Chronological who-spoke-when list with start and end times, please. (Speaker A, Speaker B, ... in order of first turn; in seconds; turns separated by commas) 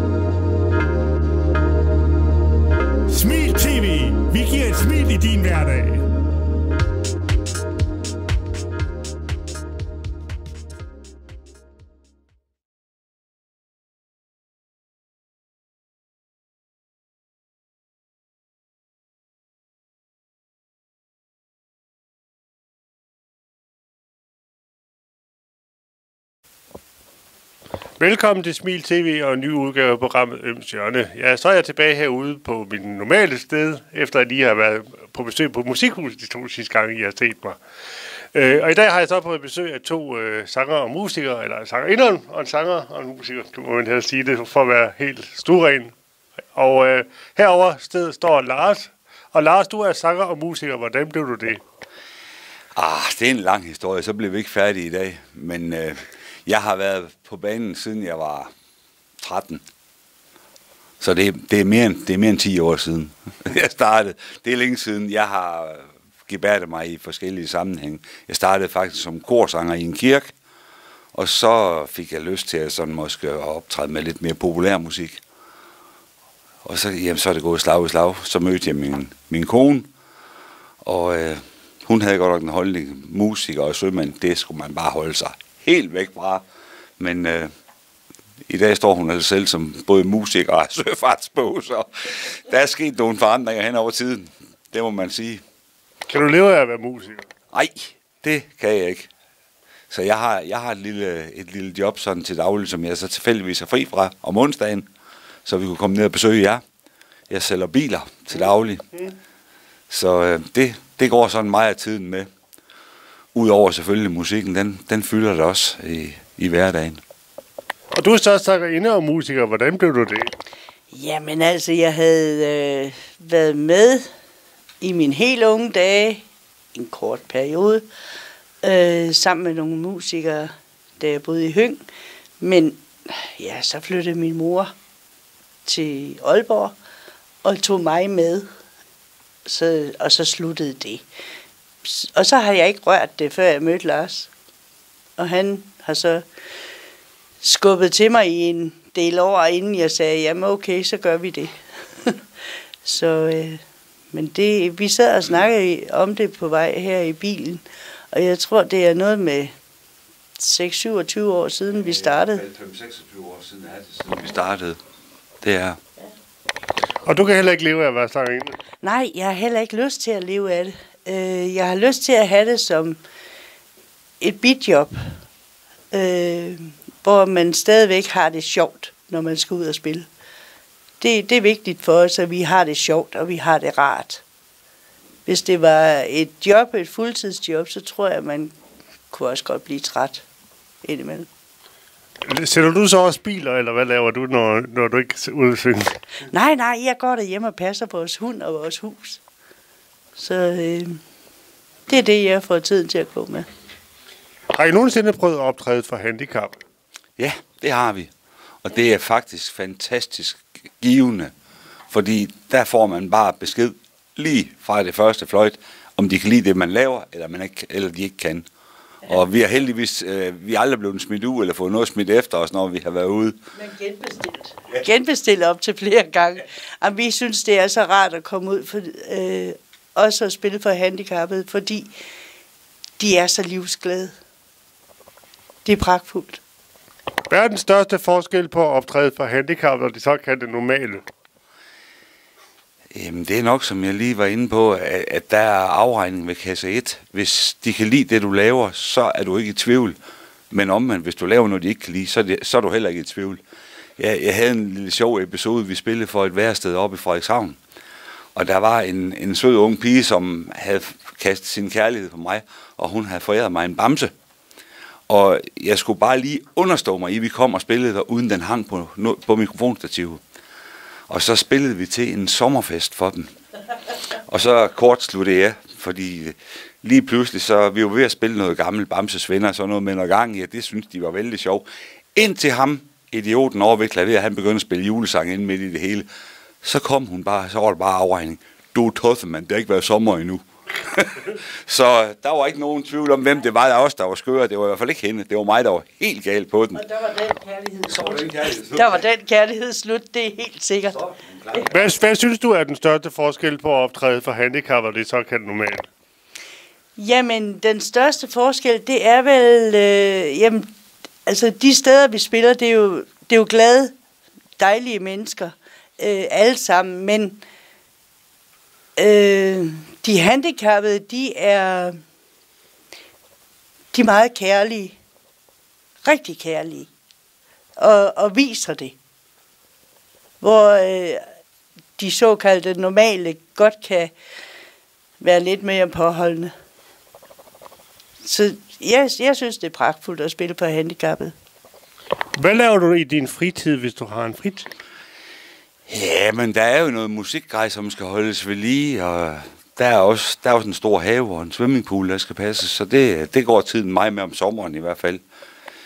Speaker A: 3.1-6.0, Speaker B: 28.0-37.6, Speaker B: 38.3-45.9, Speaker B: 46.5-51.6, Speaker C: 52.8-58.5, Speaker C: 59.2-59.6, Speaker C: 61.0-70.3, Speaker C: 71.2-75.2, Speaker C: 76.7-79.9, Speaker C: 80.8-86.4, Speaker C: 87.0-87.5, Speaker C: 88.5-95.4, Speaker B: 96.1-97.3, Speaker C: 97.5-99.1, Speaker C: 99.9-104.9, Speaker C: 105.5-106.6, Speaker C: 107.3-108.8, Speaker B: 108.4-109.1, Speaker C: 109.9-112.3, Speaker C: 113.3-117.0, Speaker B: 117.9-120.3, Speaker D: 120.9-124.0, Speaker D: 124.8-126.2, Speaker D: 126.7-127.9, Speaker D: 128.6-131.8, Speaker D: 132.4-134.7, Speaker D: 135.7-136.8, Speaker D: 137.4-138.5, Speaker D: 139.5-141.1, Speaker D: 141.8-144.3, Speaker D: 145.2-146.2, Speaker D: 147.4-152.2, Speaker D: 152.8-153.6, Speaker D: 154.1-159.5, Speaker D: 160.4-162.4, Speaker C: 161.7-164.8, Speaker C: 165.4-165.8, Speaker B: 167.0-168.6, Speaker D: 168.8-173.0, Speaker D: 174.2-175.0, Speaker D: 175.9-180.1, Speaker D: 181.0-184.2, Speaker D: 185.3-188.5, Speaker D: 189.1-190.2, Speaker D: 190.8-191.3, Speaker B: 192.2-196.0, Speaker D: 196.3-199.2, Speaker D: 200.2-201.0, Speaker D: 201.9-203.5, Speaker B: 204.5-206.6, Speaker C: 207.2-208.1, Speaker C: 208.6-211.3, Speaker C: 211.9-218.5, Speaker C: 219.1-223.4, Speaker D: 223.6-231.9, Speaker D: 233.0-234.1, Speaker D: 235.7-236.4, Speaker B: 237.3-241.0, Speaker C: 242.9-250.0, Speaker C: 250.5-253.4, Speaker C: 254.0-257.6, Speaker C: 258.4-264.1, Speaker C: 265.1-270.2, Speaker C: 271.1-273.3, Speaker C: 274.3-286.1, Speaker C: 286.6-296.8, Speaker D: 296.8-301.0, Speaker C: 297.9-299.0, Speaker C: 300.9-301.8, Speaker B: 301.7-305.9, Speaker D: 307.0-310.7, Speaker D: 311.3-313.9, Speaker D: 314.6-317.4, Speaker D: 319.0-322.0, Speaker D: 323.9-325.0, Speaker D: 326.0-326.9, Speaker D: 327.8-329.0, Speaker D: 330.4-331.2, Speaker D: 332.0-334.1, Speaker D: 335.2-336.5, Speaker D: 338.2-341.3, Speaker B: 342.4-344.7, Speaker C: 345.9-355.2